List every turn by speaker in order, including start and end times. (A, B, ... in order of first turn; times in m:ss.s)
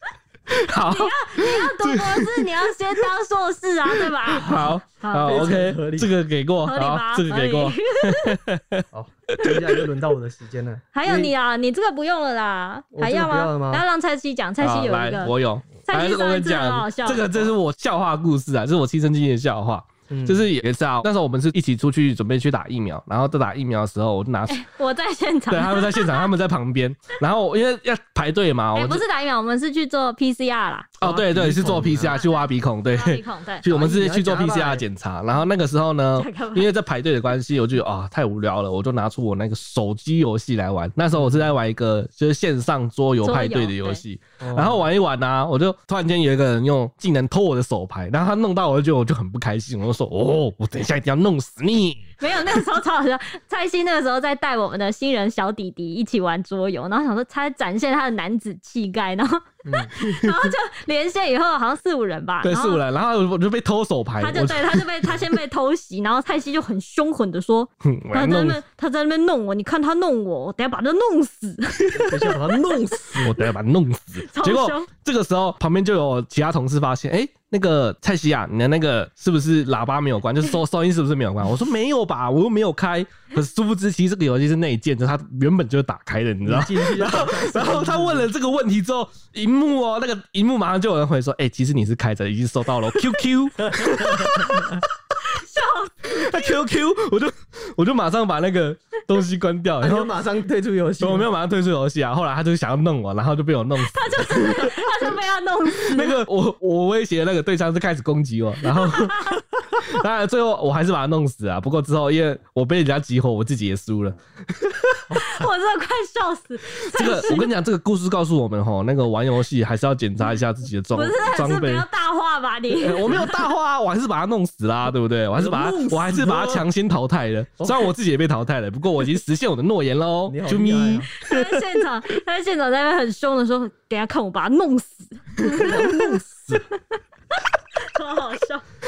0:00.6-0:03.0 A
0:00.8-0:05.7 B
0:03.9-0:09.8 A
0:05.2-0:06.1 C
0:06.6-0:08.4 B
0:08.9-0:11.3 C
0:10.9-0:15.3 B
0:12.9-0:13.8 C
0:14.6-0:24.6 A
0:15.8-0:17.3 B
0:20.1-0:20.5 C
0:24.5-0:26.3 B
0:25.5-0:29.0 A
0:28.7-0:30.9 B
0:31.0-0:52.1 A
0:31.0-0:32.2 C
0:31.7-0:33.6 B
0:33.6-0:34.9 C
0:36.2-0:36.7 B
0:41.1-0:41.5 C
0:43.2-0:44.0 B
0:44.4-0:44.9 C
0:52.2-1:02.8 B
0:59.6-0:59.9 C
1:00.0-1:00.5 A
1:02.4-1:04.9 A
1:04.2-1:11.9 B
1:07.8-1:08.6 A
1:11.9-1:13.4 C
1:11.9-1:12.4 A
1:13.2-1:34.8 A
1:14.2-1:14.9 B
1:26.4-1:28.3 C
1:34.0-1:34.8 C
1:35.2-1:36.6 B
1:36.0-1:40.1 A
1:39.8-1:41.3 C
1:41.0-1:45.0 A
1:43.8-1:46.2 B
1:45.7-1:55.0 A
1:48.7-1:49.4 B
1:55.1-1:55.5 C
1:55.2-1:57.5 B
1:56.9-2:01.8 A
2:00.9-2:03.5 B
2:02.7-2:11.6 A
2:05.3-2:06.7 C
2:07.6-2:07.9 C
2:10.2-2:11.1 C
2:11.2-2:16.0 B
2:15.4-2:16.6 A
2:15.6-2:16.6 C
2:17.8-2:18.6 B